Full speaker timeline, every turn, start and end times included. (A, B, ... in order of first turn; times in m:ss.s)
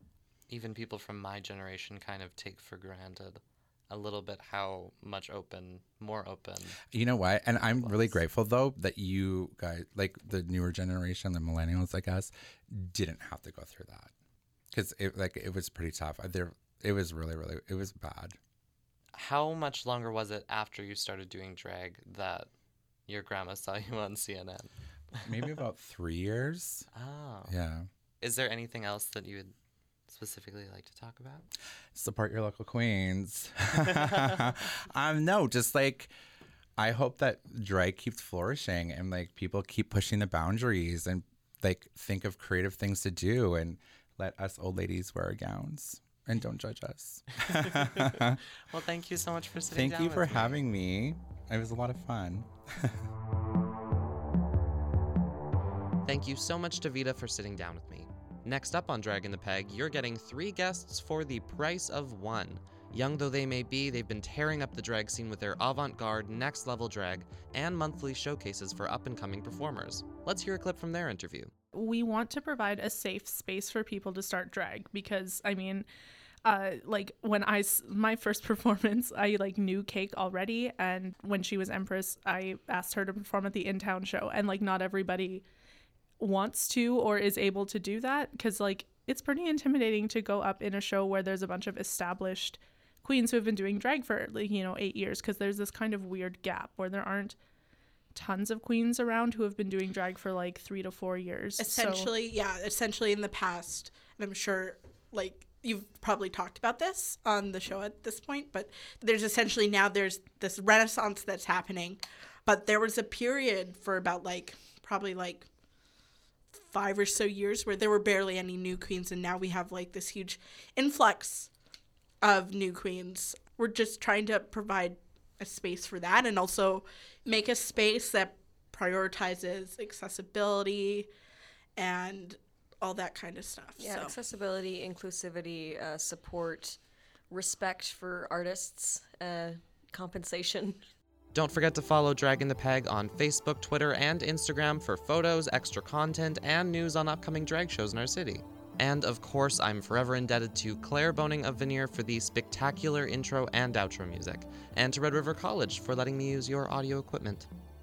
0:00.5-0:06.8 A
0:06.9-0:14.1 B
0:07.5-0:08.2 A
0:14.7-0:18.4 B
0:19.1-0:22.5 A
0:23.1-0:25.5 A
0:25.2-0:26.9 B
0:26.9-0:27.6 A
0:27.5-0:27.9 B
0:28.2-0:29.5 A
0:30.1-0:31.5 A
0:32.0-0:36.1 B
0:34.0-0:34.4 A
0:36.8-0:48.4 B
0:47.4-0:50.7 A
0:49.7-0:53.1 B
0:56.0-1:11.5 A
1:11.7-1:15.9 C
1:16.4-1:25.4 C
1:26.2-1:37.4 C
1:38.1-1:42.1 C
1:41.6-1:55.5 D
1:56.6-2:01.5 D
2:02.2-2:11.1 D
2:11.8-2:14.2 D
2:13.8-2:20.8 E
2:21.3-2:37.5 A